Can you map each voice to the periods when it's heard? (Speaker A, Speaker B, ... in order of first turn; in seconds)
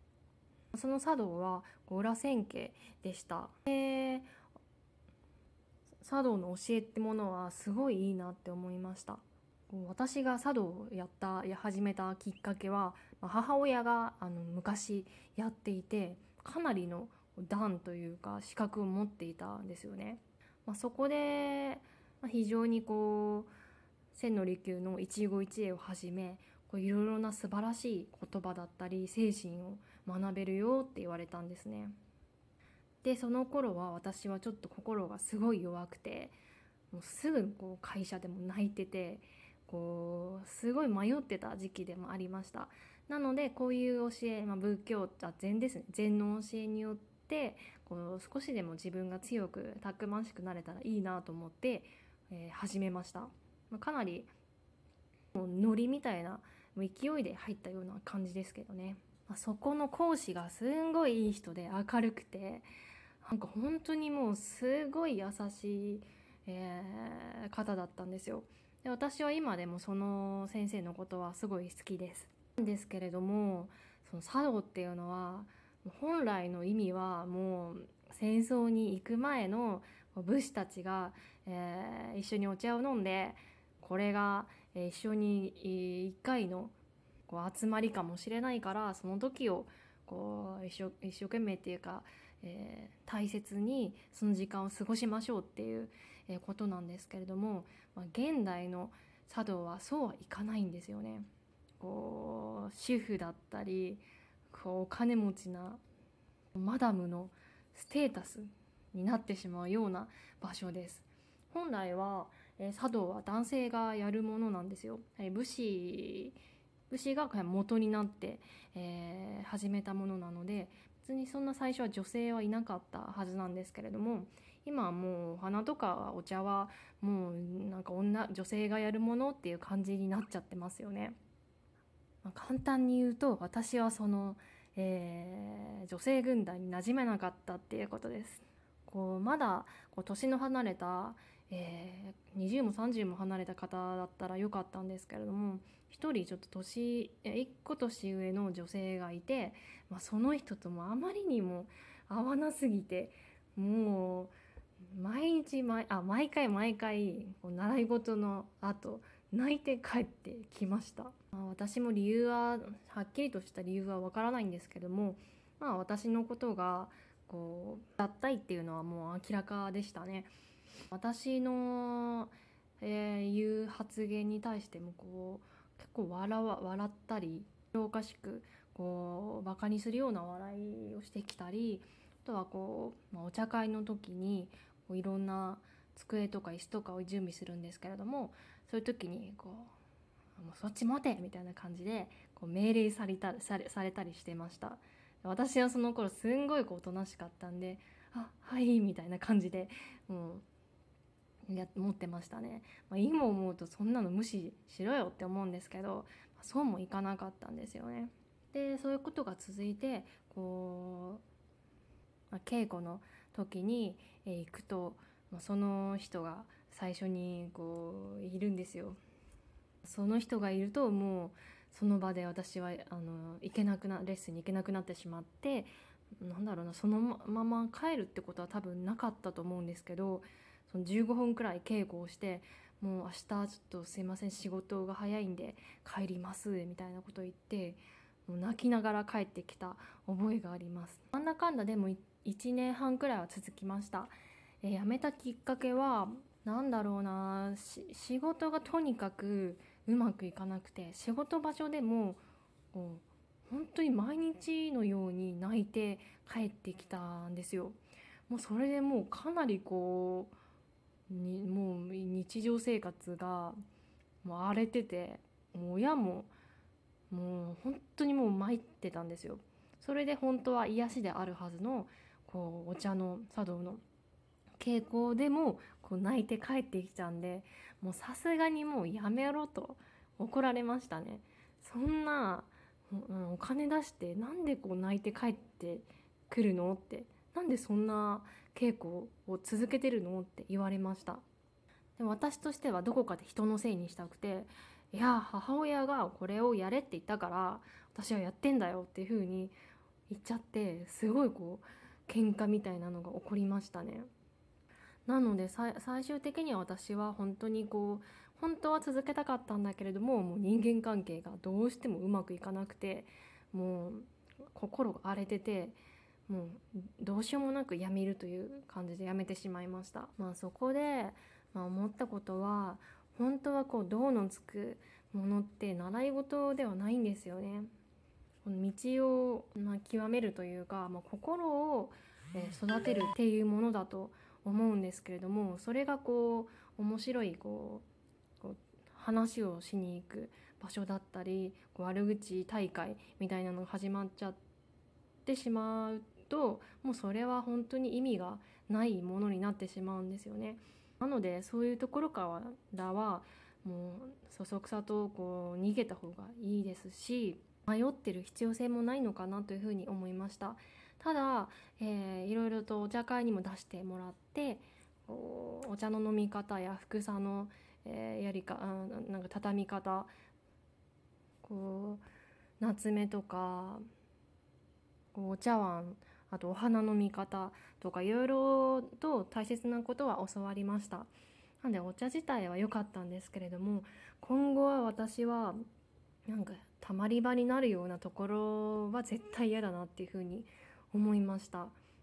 Speaker A: 0.7-4.3, 6.0-23.5, 24.1-31.9, 33.0-36.4, 36.9-54.3, 55.3-62.7, 63.2-86.7, 87.3-105.8, 106.5-116.4, 116.9-131.2, 132.2-170.3, 170.9-189.7, 190.3-200.4, 201.5-211.2, 212.3-219.0, 219.8-252.2, 252.7-257.8, 258.3-260.3, 261.1-263.6, 264.2-266.3, 267.1-273.8, 274.6-291.2, 292.0-299.6, 300.1-304.1, 305.1-315.8, 316.3-327.7, 328.4-337.9, 338.4-344.4, 345.2-370.1, 371.4-372.0, 372.6-373.8, 375.1-385.6, 386.2-391.8